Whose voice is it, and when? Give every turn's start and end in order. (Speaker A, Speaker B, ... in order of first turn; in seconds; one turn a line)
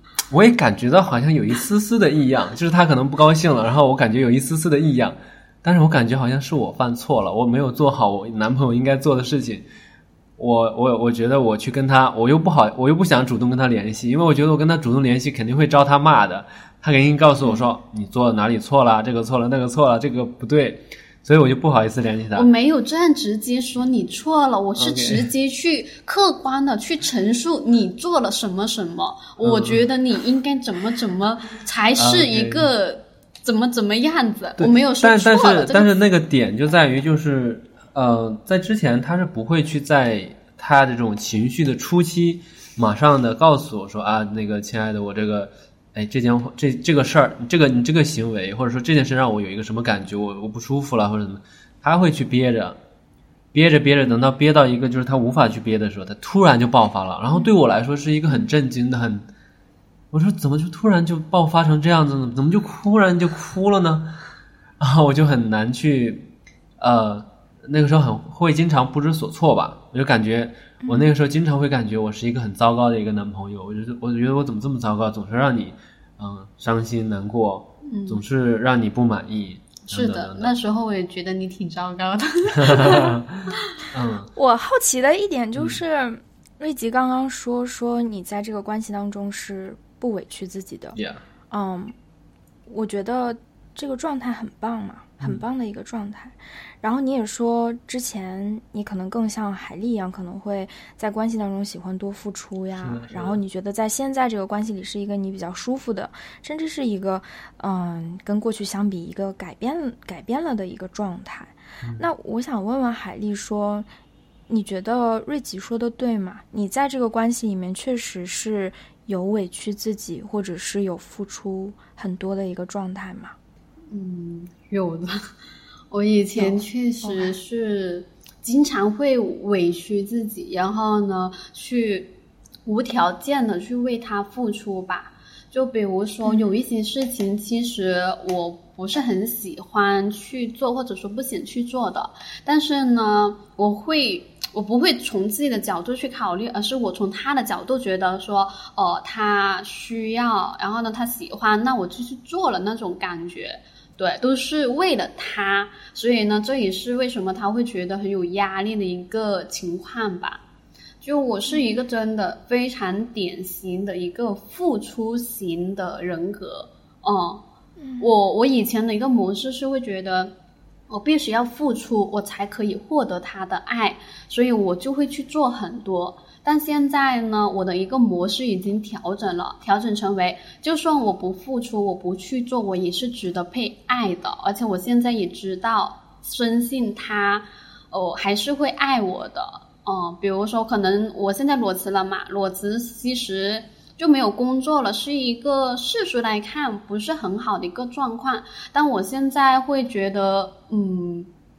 Speaker A: 0.3-9.7
Speaker A: 10.4-22.5
Speaker B: 22.3-35.9
Speaker A: 24.8-25.3
Speaker A: 29.4-29.9
Speaker A: 32.0-32.7
Speaker A: 34.6-52.8
Speaker A: 53.5-59.3
Speaker A: 60.1-64.2
Speaker A: 64.8-80.5
Speaker B: 77.9-78.2
Speaker B: 79.9-83.2
Speaker A: 82.6-84.3
Speaker C: 84.4-91.0
Speaker A: 91.0-91.2
Speaker C: 91.5-91.9
Speaker C: 92.7-113.9
Speaker A: 102.8-103.4
Speaker C: 114.5-123.3
Speaker B: 123.9-125.3
Speaker B: 125.9-132.2
Speaker C: 126.4-127.3
Speaker B: 132.7-160.4
Speaker C: 136.2-136.6
Speaker B: 161.0-167.4
Speaker C: 167.8-168.1
Speaker B: 168.0-170.3
Speaker B: 170.9-201.3